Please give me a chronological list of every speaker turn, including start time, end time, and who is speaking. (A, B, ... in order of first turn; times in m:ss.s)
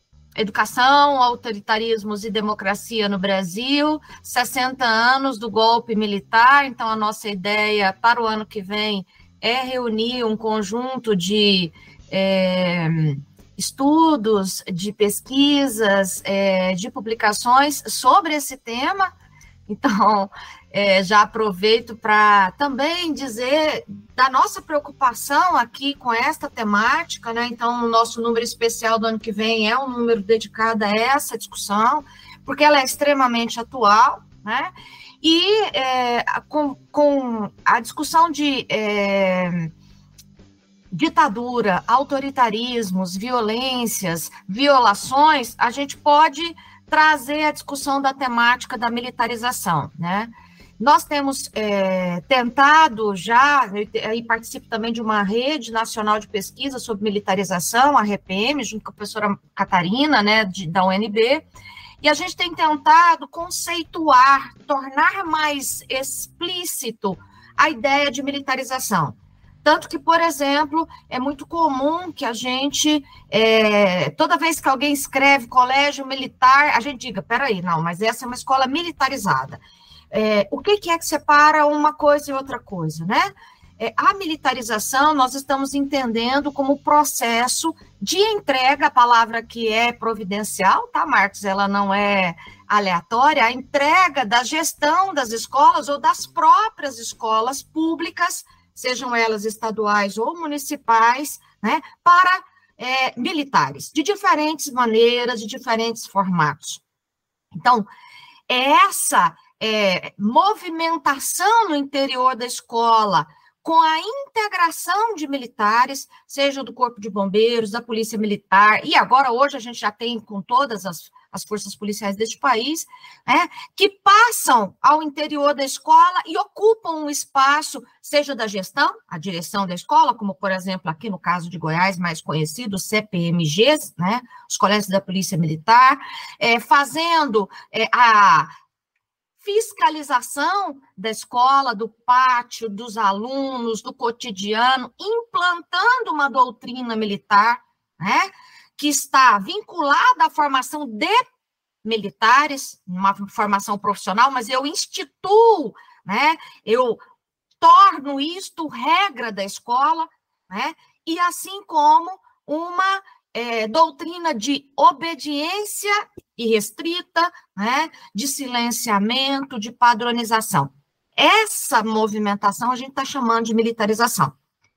0:00.4-0:19.1 A
0:19.7-0:34.7 A
0:35.2-0:39.7 A
0:40.9-1:01.4 A
1:02.0-1:19.6 A
1:20.1-1:46.8 A
1:47.6-1:47.9 A
1:48.5-2:18.5 A
2:19.4-2:31.2 A
2:31.8-2:37.0 A
2:37.6-2:54.3 A